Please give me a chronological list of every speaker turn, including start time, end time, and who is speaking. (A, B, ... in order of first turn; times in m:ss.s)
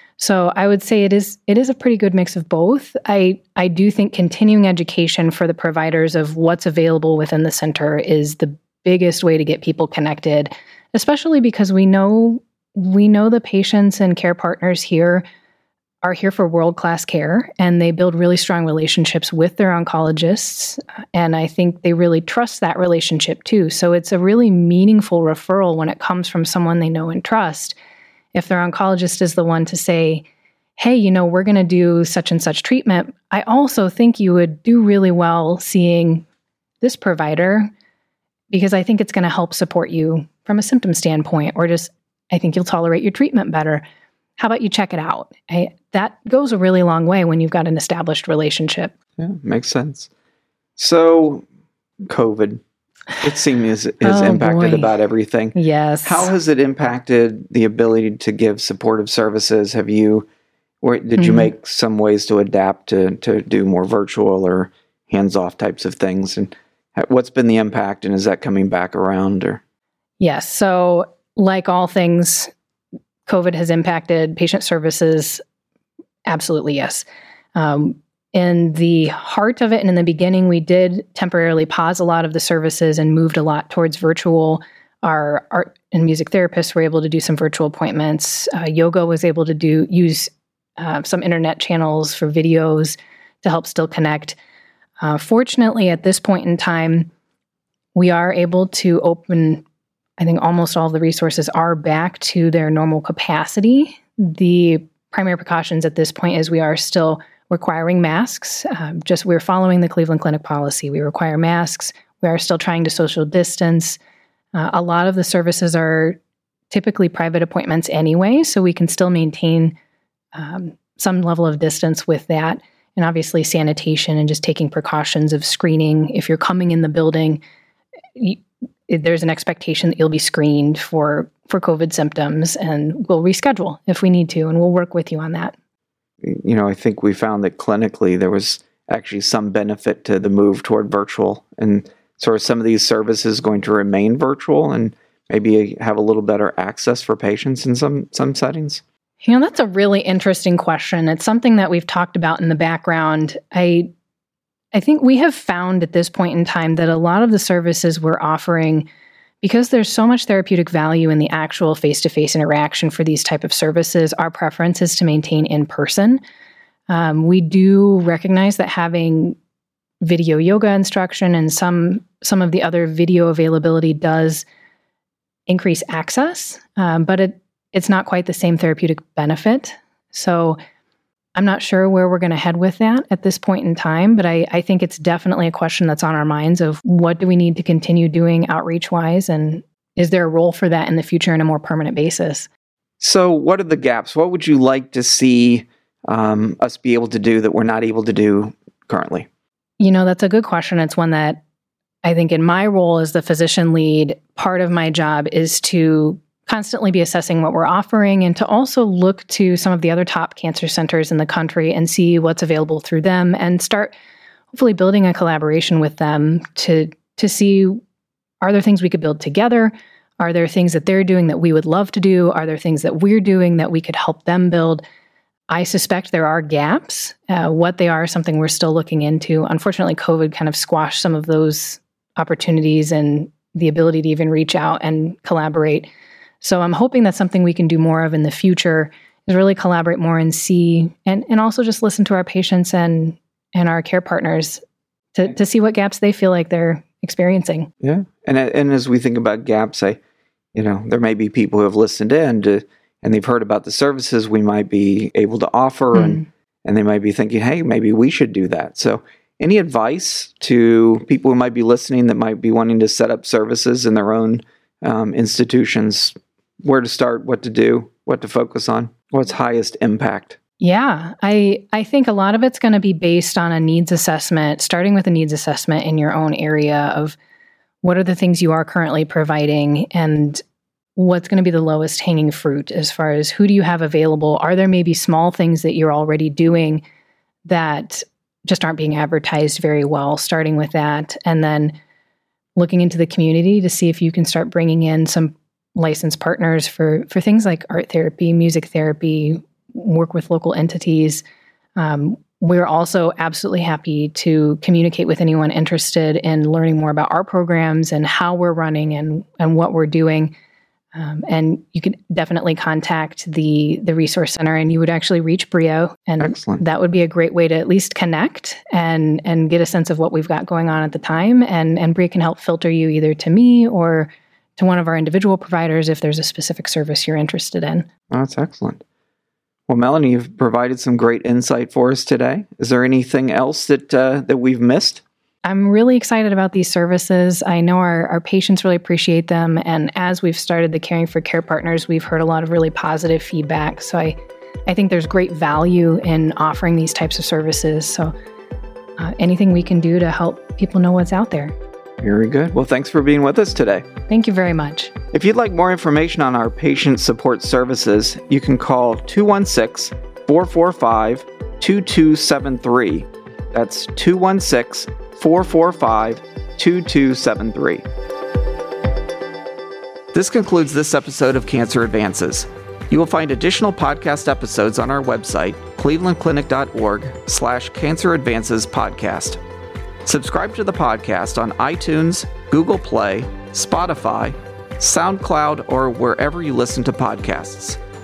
0:00.2-0:15.2 A
0:16.0-0:27.8 A
0:28.3-0:30.2 A
0:30.8-0:36.2 A
0:36.8-0:37.7 A
0:38.5-0:43.8 A
0:44.4-0:48.9 A
0:49.2-0:50.1 B
0:50.8-0:51.4 B
0:52.0-0:52.6 B
0:53.2-1:00.3 B
0:54.0-0:54.9 A
0:55.6-0:56.3 A
1:00.8-1:09.6 B
1:01.2-1:01.5 A
1:10.2-1:12.5 A
1:13.2-1:15.4 A
1:16.2-1:34.4 A
1:35.0-1:37.1 A
1:37.9-1:39.6 A
1:40.2-1:54.0 A
1:54.5-1:56.2 A
1:56.7-1:59.8 A
2:00.3-2:07.4 A
2:08.2-2:15.5 A
2:16.2-2:28.8 B
2:29.2-2:33.9 A
2:34.7-2:38.9 A
2:39.4-2:46.2 A
2:46.9-2:49.4 A
2:50.0-2:54.4 A
2:55.5-3:00.6 A
3:01.3-3:12.5 A
3:13.0-3:19.3 B
3:19.8-3:21.4 A
3:22.0-3:33.9 A
3:34.5-3:37.8 A
3:38.4-3:44.8 A
3:45.5-3:55.9 A
3:56.4-4:04.6 A
4:05.1-4:07.7 A
4:07.8-4:10.0 B
4:10.5-4:30.4 B
4:15.9-4:16.2 A
4:30.6-4:37.2 A
4:37.8-4:40.4 A
4:41.0-4:46.8 A
4:47.4-4:51.8 A
4:52.6-5:01.2 A
5:01.8-5:10.3 A
5:10.9-5:27.9 A
5:16.2-5:16.6 B
5:28.1-5:28.8 B
5:29.7-5:35.0 B
5:35.4-5:48.1 A
5:49.0-5:51.5 A
5:52.0-5:53.8 B
5:54.1-5:54.9 A
5:55.1-6:07.8 B
6:10.1-6:19.4 B
6:20.0-6:27.8 B